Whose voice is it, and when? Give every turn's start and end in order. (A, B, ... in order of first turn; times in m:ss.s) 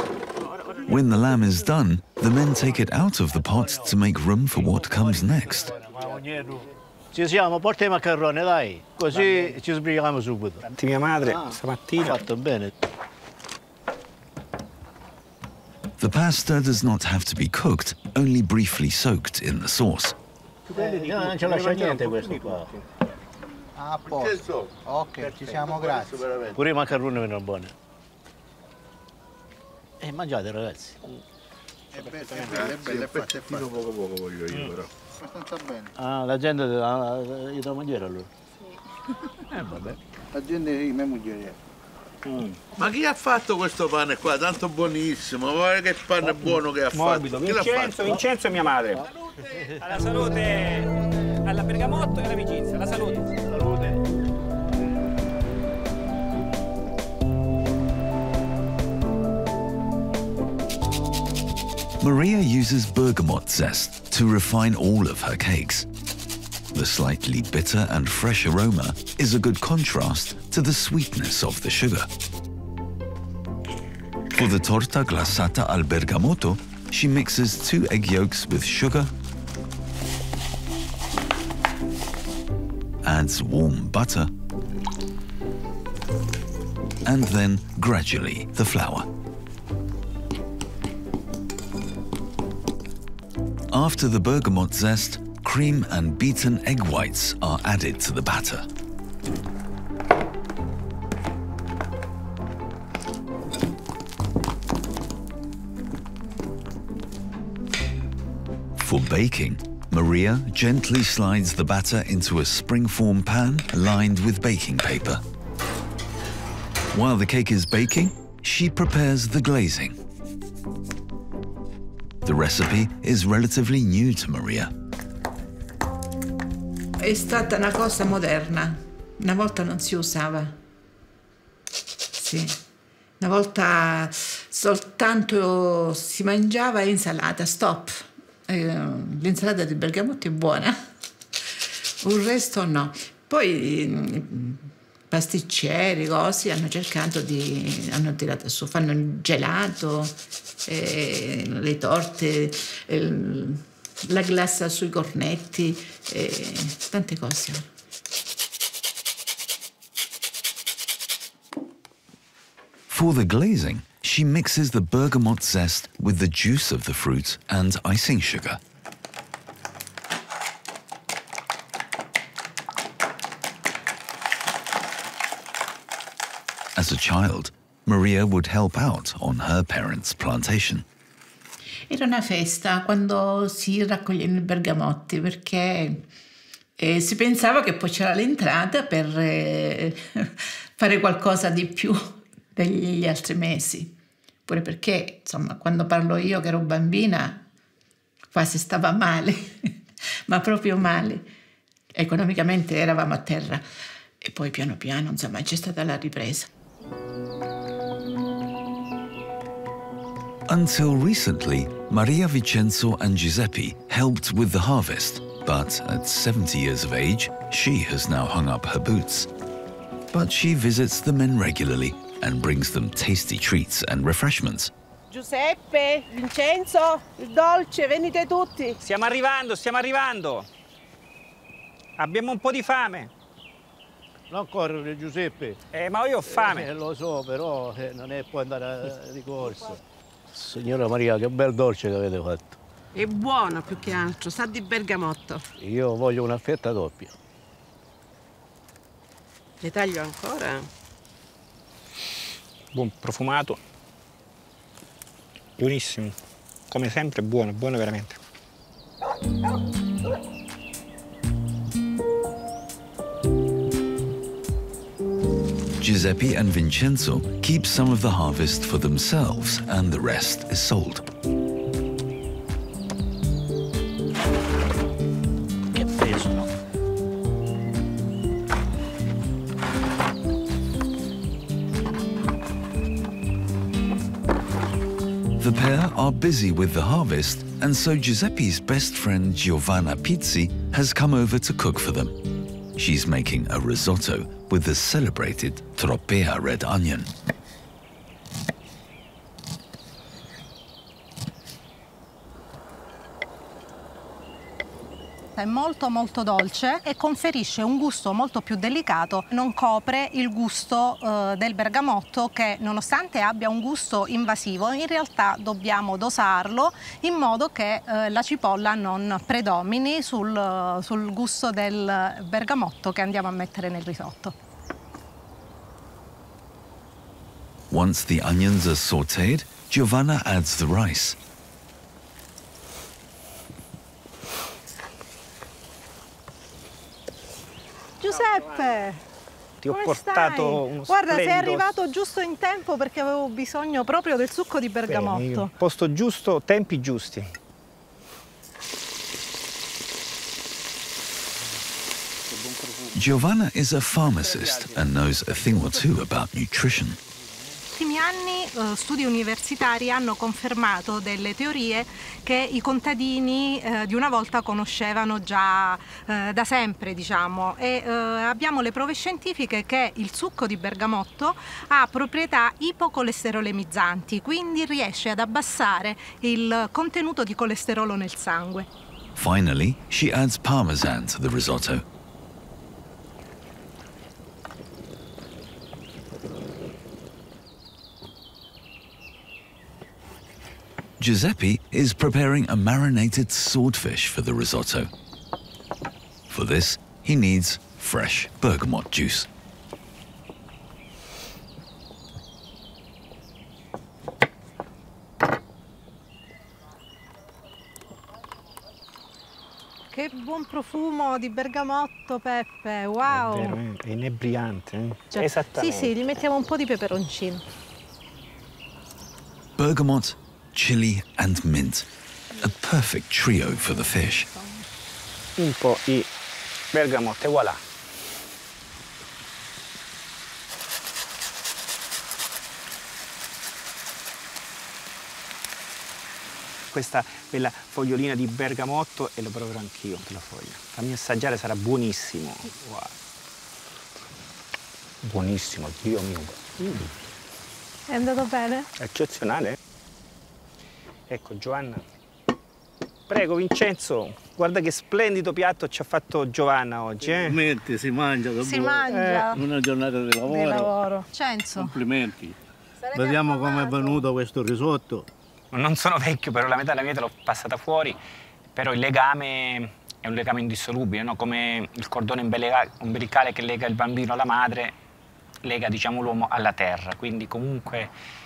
0:00.9-0:05.7 A
0:03.5-0:03.9 B
0:04.6-0:10.6 B
0:10.6-0:12.2 C
0:11.3-0:12.7 B
0:16.0-0:20.2 A
0:20.7-0:22.7 B
0:20.8-0:22.8 C
0:23.8-0:26.2 D
0:24.1-0:26.6 E
0:26.6-0:27.7 B
0:30.0-0:31.0 B
0:32.0-0:32.7 C
0:32.0-0:33.8 D
0:32.4-0:34.9 E
0:35.2-0:35.9 D
0:36.0-0:38.3 B
0:39.5-0:40.0 E
0:40.3-0:41.6 D
0:42.3-0:42.6 C
0:42.7-0:48.2 E
0:46.9-0:49.0 C
0:49.4-0:49.8 B
0:49.8-0:53.3 C
0:53.4-0:54.0 B
1:02.0-1:05.9 A
1:06.7-1:12.1 A
1:14.3-1:19.1 A
1:23.0-1:24.3 A
1:27.0-1:29.1 A
1:33.7-1:38.7 A
1:48.8-1:55.2 A
1:56.9-2:00.0 A
2:02.2-2:04.7 A
2:07.0-2:10.6 F
2:12.1-2:12.6 F
2:13.2-2:20.8 F
2:21.6-2:37.6 F
2:42.9-2:48.6 A
2:56.8-3:00.8 A
3:01.9-3:06.0 F
3:06.8-3:17.4 F
3:18.3-3:19.8 F
3:20.3-3:21.3 F
3:21.9-3:23.6 F
3:24.2-3:26.5 F
3:30.5-3:39.3 A
3:40.1-3:44.7 A
3:45.1-3:48.8 G
3:48.8-3:50.5 C
3:52.0-3:53.1 C
3:54.3-3:55.6 B
3:55.7-3:56.7 C
3:56.3-3:59.8 B
4:00.3-4:02.6 B
4:03.0-4:05.4 G
4:05.6-4:07.2 B
4:09.6-4:10.7 G
4:12.7-4:13.6 C
4:15.6-4:16.2 C
4:16.7-4:18.2 C
4:25.8-4:31.0 A
4:35.7-4:36.5 B
4:45.4-4:52.2 A
4:52.8-4:57.1 A
5:05.4-5:24.3 H
5:27.7-5:31.2 A
5:38.0-5:39.0 H
5:38.2-5:38.6 C
5:39.6-5:41.7 C
5:39.7-5:45.5 H
5:44.9-5:47.3 C
5:53.0-5:57.0 A
5:57.7-6:18.7 H
6:19.2-6:21.8 A
6:31.0-6:34.9 A
6:36.3-6:39.3 A
6:49.9-6:53.6 H
6:53.1-6:55.9 C
6:55.1-6:57.4 H
6:59.6-7:04.3 A
7:03.5-7:04.6 H
7:05.4-7:06.1 C
7:06.7-7:07.6 C
7:16.7-7:22.9 C
7:25.0-7:26.9 C
7:27.9-7:28.7 H
7:28.8-7:29.6 C
7:31.1-7:31.8 C
7:33.1-7:37.4 C
7:37.0-7:40.7 B
7:38.4-7:39.4 H
7:38.9-7:39.3 C
7:40.2-7:41.8 H
7:41.6-7:42.4 B
7:42.8-7:44.0 H
7:42.9-7:45.1 B
7:45.5-7:48.0 C
7:48.6-7:54.8 C
7:55.4-7:57.9 C